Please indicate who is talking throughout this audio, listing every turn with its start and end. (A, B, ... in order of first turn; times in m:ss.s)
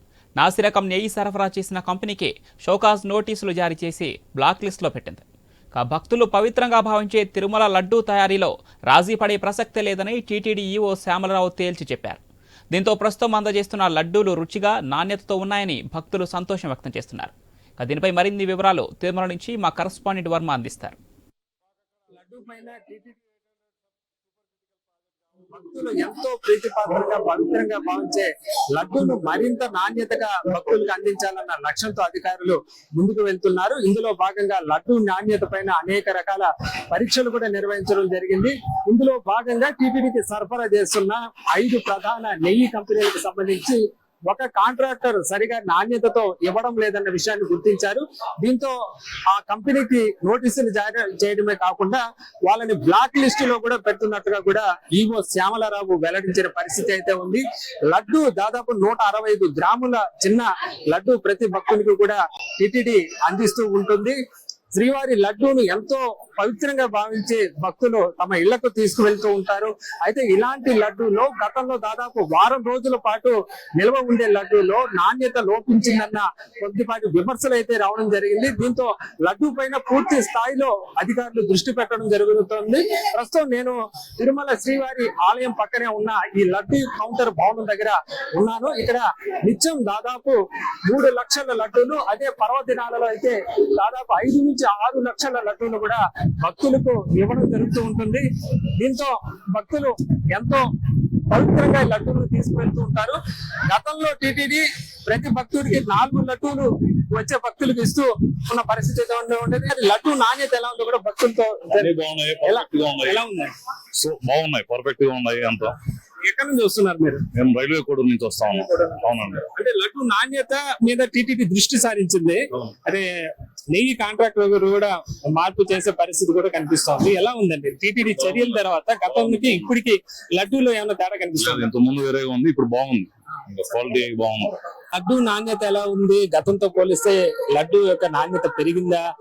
0:00.4-0:05.2 A
0:05.7-0:12.2 A
0:12.7-0:21.0 A
0:22.1-0:23.2 B
0:25.5-0:48.7 B
0:49.3-1:04.1 B
1:04.7-1:38.2 B
1:38.8-1:40.6 B
1:41.3-1:43.2 B
1:43.7-1:53.5 B
1:51.7-1:53.2 C
1:54.0-1:55.8 C
1:56.2-1:57.2 B
1:57.3-1:59.4 C
1:59.4-2:03.0 B
2:03.7-2:11.6 B
2:11.4-2:14.5 C
2:14.9-2:19.0 B